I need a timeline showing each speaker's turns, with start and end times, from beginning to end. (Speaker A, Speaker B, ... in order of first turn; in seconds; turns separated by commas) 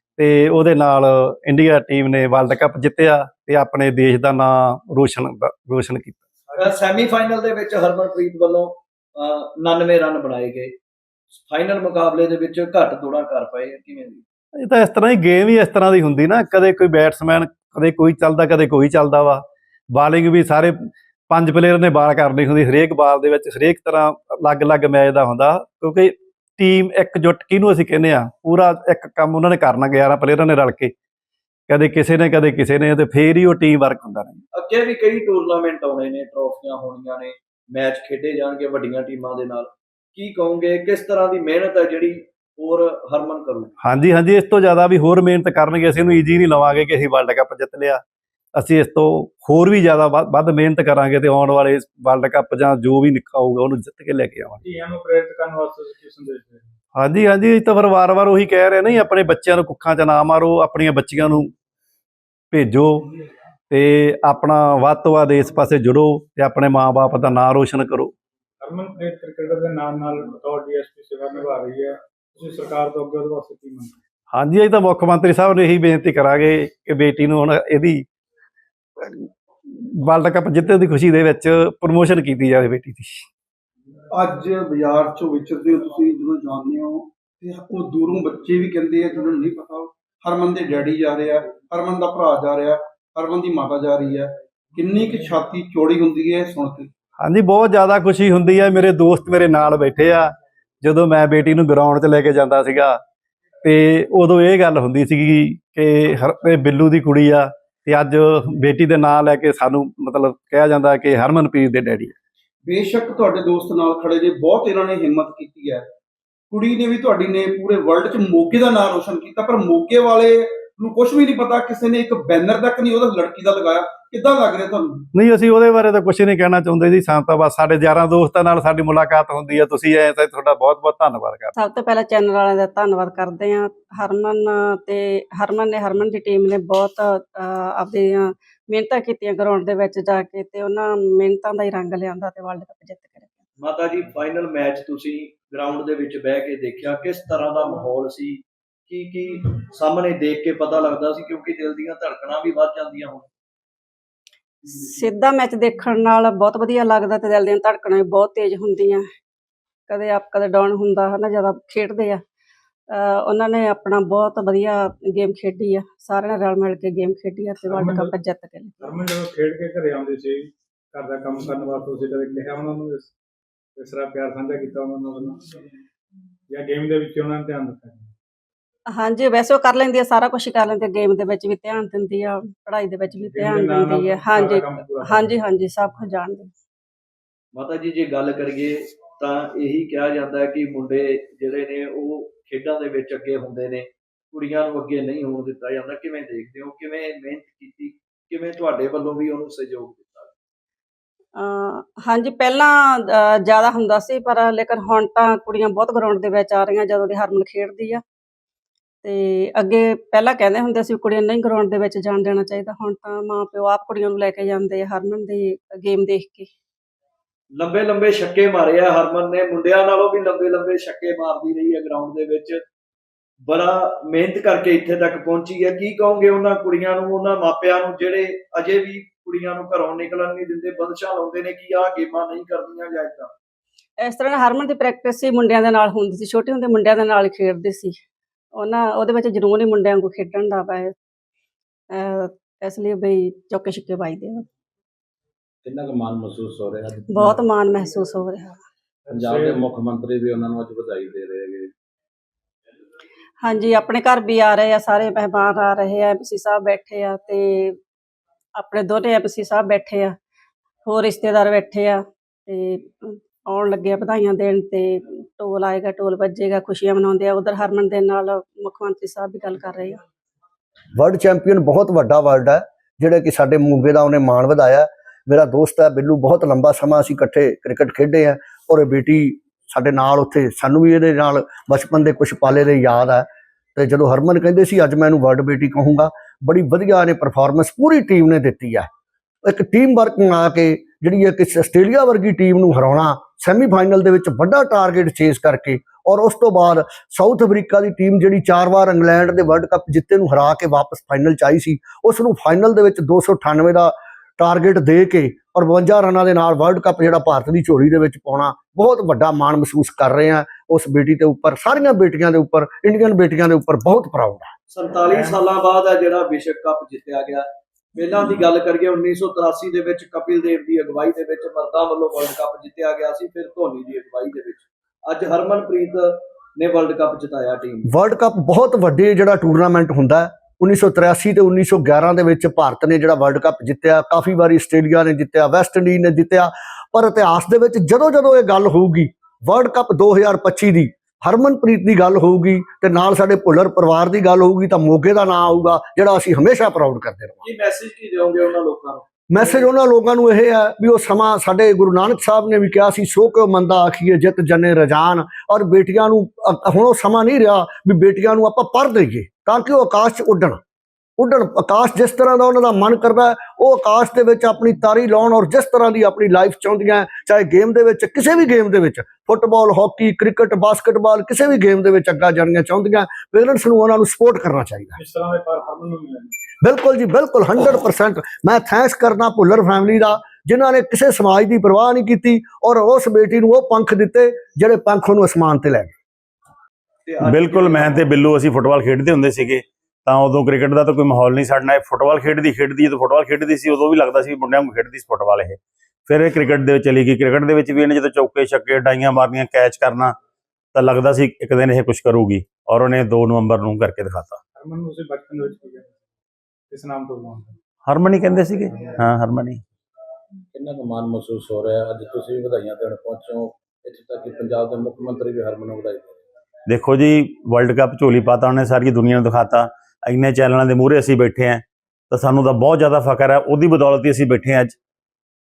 Speaker A: 0.2-6.2, Speaker B: 6.5-6.7, Speaker C: 6.6-10.7, Speaker C: 11.3-14.2, Speaker A: 14.6-19.4, Speaker A: 19.9-20.7, Speaker A: 21.3-30.9, Speaker A: 31.7-34.4, Speaker C: 34.5-43.7, Speaker A: 43.8-48.0, Speaker A: 48.6-54.6, Speaker B: 54.6-56.6, Speaker A: 57.0-61.5, Speaker A: 62.5-63.0, Speaker A: 63.7-68.1, Speaker B: 68.6-73.9, Speaker A: 74.3-78.0, Speaker A: 79.0-83.2, Speaker D: 84.1-96.9, Speaker A: 97.2-103.0, Speaker A: 103.6-112.1, Speaker D: 112.6-115.8, Speaker D: 116.5-125.0, Speaker A: 125.1-131.5, Speaker E: 131.6-143.4, Speaker C: 143.6-153.3, Speaker E: 154.7-159.0, Speaker E: 159.9-162.2, Speaker E: 162.9-168.8, Speaker B: 167.7-168.1, Speaker B: 168.8-173.1, Speaker B: 173.8-175.4, Speaker B: 176.5-178.1, Speaker E: 178.9-186.5, Speaker B: 183.2-185.7, Speaker C: 187.5-200.3, Speaker E: 201.3-208.0, Speaker E: 209.0-216.5, Speaker C: 217.6-222.6, Speaker C: 223.5-233.3, Speaker E: 234.0-238.0, Speaker E: 238.6-240.9, Speaker E: 241.9-244.4, Speaker F: 245.6-247.4, Speaker E: 247.1-248.6, Speaker B: 249.1-249.6, Speaker F: 249.1-251.7, Speaker E: 253.4-257.8, Speaker E: 258.6-260.1, Speaker E: 260.8-270.0, Speaker G: 270.9-288.9, Speaker G: 289.4-314.5, Speaker C: 314.7-327.9, Speaker G: 327.9-347.4, Speaker C: 347.4-349.7, Speaker G: 349.3-360.6, Speaker G: 361.2-374.9, Speaker B: 374.9-376.4, Speaker G: 376.6-385.9, Speaker C: 387.1-388.1, Speaker H: 387.2-400.1, Speaker H: 400.7-404.4, Speaker B: 404.5-405.9, Speaker B: 406.7-407.6, Speaker H: 407.9-409.6, Speaker F: 410.5-416.2, Speaker H: 416.6-424.8